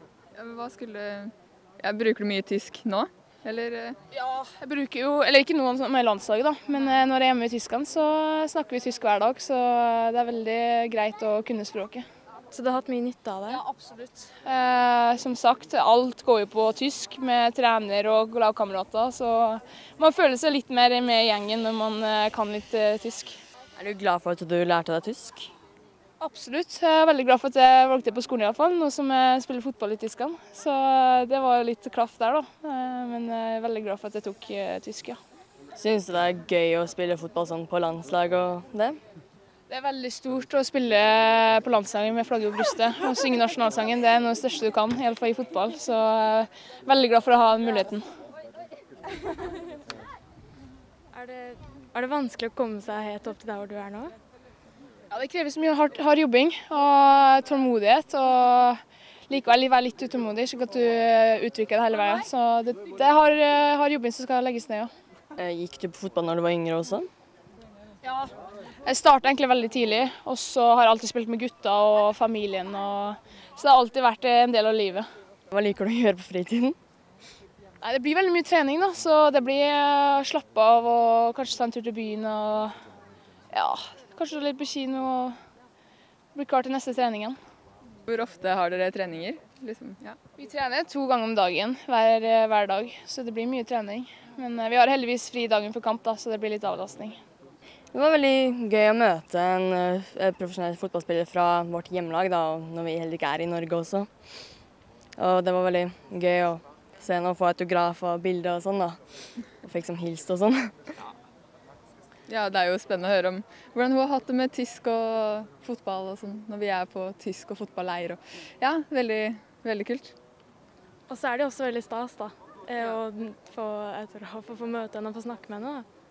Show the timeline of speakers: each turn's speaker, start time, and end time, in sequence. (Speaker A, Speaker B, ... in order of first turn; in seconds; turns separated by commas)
Speaker A: 0.3-4.0, Speaker B: 4.1-12.1, Speaker C: 12.5-13.6, Speaker B: 13.5-23.4, Speaker D: 23.8-25.5, Speaker B: 26.2-35.2, Speaker D: 35.8-39.0, Speaker B: 39.7-48.0, Speaker C: 51.1-54.1, Speaker B: 55.1-64.9, Speaker D: 65.4-67.1, Speaker B: 68.0-68.3, Speaker B: 68.8-75.1, Speaker D: 75.5-76.8, Speaker B: 77.8-82.8, Speaker B: 83.5-85.3, Speaker B: 86.3-87.4, Speaker A: 88.1-90.2, Speaker B: 90.4-97.2, Speaker D: 97.9-104.1, Speaker D: 105.2-109.0, Speaker D: 109.6-110.7, Speaker A: 112.3-120.1, Speaker C: 121.1-125.9